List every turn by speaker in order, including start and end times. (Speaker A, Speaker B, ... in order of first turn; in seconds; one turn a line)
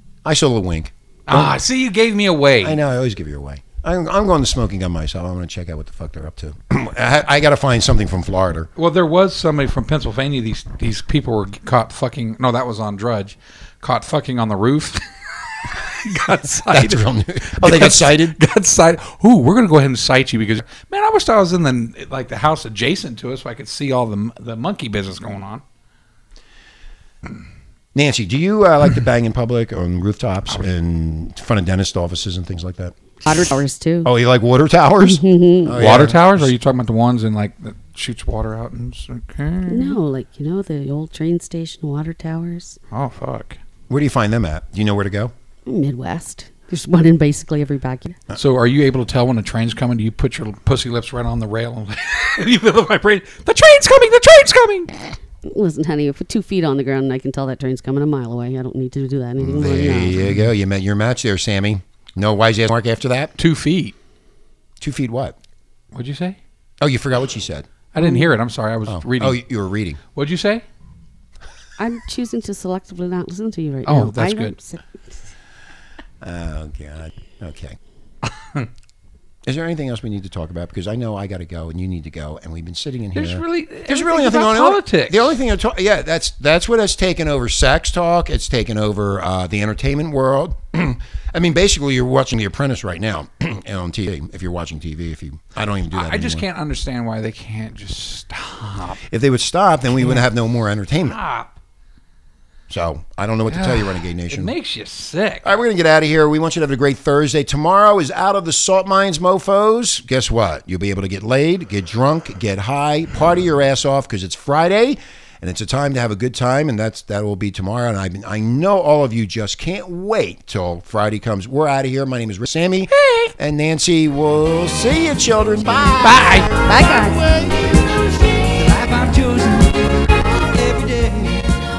Speaker A: 0.2-1.5
Speaker B: 1.3-2.8
Speaker A: 2.6-8.7
Speaker B: 8.8-25.6
Speaker A: 16.7-18.4
Speaker A: 27.9-32.9
Speaker C: 33.2-34.1
Speaker A: 34.0-36.5
Speaker C: 35.0-35.8
Speaker B: 35.8-40.0
Speaker C: 39.7-42.8
Speaker B: 42.9-43.6
Speaker A: 43.9-45.3
Speaker C: 45.6-48.2
Speaker B: 48.3-55.1
Speaker C: 55.4-60.2
Speaker A: 59.4-63.3
Speaker B: 60.1-60.5
Speaker B: 63.4-63.9
Speaker A: 64.8-65.3
Speaker B: 65.9-66.4
Speaker A: 66.8-67.7
Speaker B: 67.9-69.4
Speaker C: 68.0-68.3
Speaker A: 68.8-70.0
Speaker B: 70.1-70.6
Speaker C: 71.8-75.1
Speaker B: 73.8-74.5
Speaker A: 76.2-77.8
Speaker A: 79.4-96.5
Speaker B: 83.1-85.3
Speaker B: 95.9-99.0
Speaker A: 99.1-101.2
Speaker B: 100.0-100.2
Speaker B: 101.0-101.6
Speaker A: 102.7-104.5
Speaker B: 103.5-105.5
Speaker A: 105.4-127.8
Speaker B: 122.9-123.3
Speaker B: 126.0-126.5
Speaker C: 126.6-127.2
Speaker B: 128.5-129.9
Speaker B: 130.6-131.4